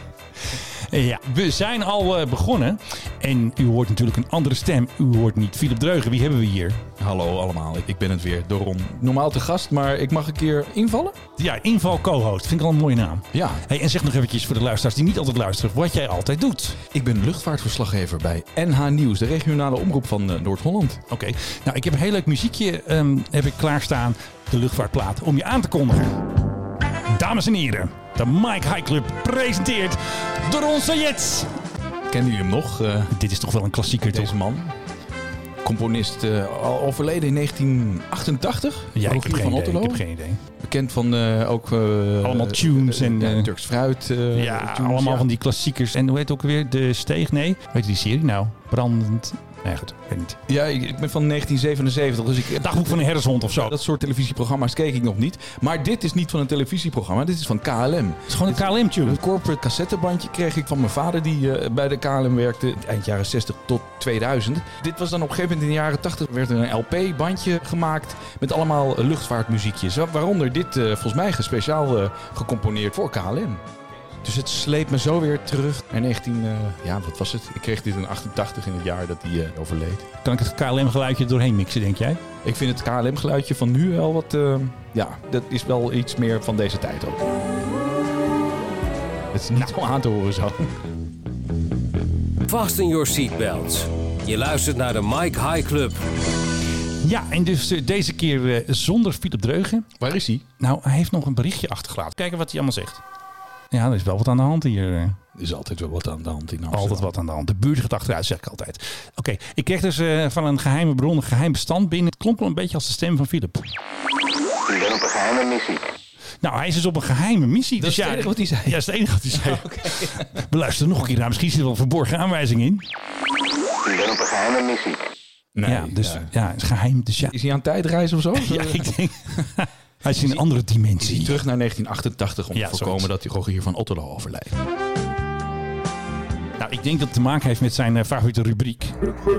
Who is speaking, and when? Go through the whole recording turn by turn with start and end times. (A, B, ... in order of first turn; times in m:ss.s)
0:00.9-0:06.8 A
0:07.0-0:11.2 B
0:11.4-0:16.8 A
0:13.3-0:13.6 B
0:16.9-0:21.0 B
0:21.1-0:26.3 A
0:27.1-0:31.5 A
0:32.1-0:33.1 B
0:33.1-0:34.4 A
0:34.1-0:34.8 B
0:35.6-0:40.0 B
0:39.0-0:40.4 A
0:40.6-0:45.3 B
0:42.2-0:43.5 A
0:44.3-0:50.4 A
0:50.5-1:13.6 B
0:52.5-0:53.8 A
0:58.3-0:59.2 A
1:14.2-1:20.1 B
1:20.2-1:22.2 A
1:22.4-1:27.4 B
1:29.3-1:30.7 B
1:32.4-1:36.0 C
1:37.0-1:39.9 A
1:40.0-1:40.4 B
1:40.6-1:43.0 A
1:43.7-1:45.2 A
1:45.4-1:47.1 B
1:46.7-1:53.7 A
1:54.7-1:55.7 D
1:56.4-2:02.9 A
1:57.8-2:00.3 B
2:04.0-2:04.9 D
2:05.6-2:06.3 B
2:05.7-2:07.3 A
2:07.2-2:08.9 B
2:08.4-2:11.4 A
2:10.1-2:10.4 B
2:11.0-2:14.5 B
2:12.6-2:13.1 A
2:16.6-2:19.0 A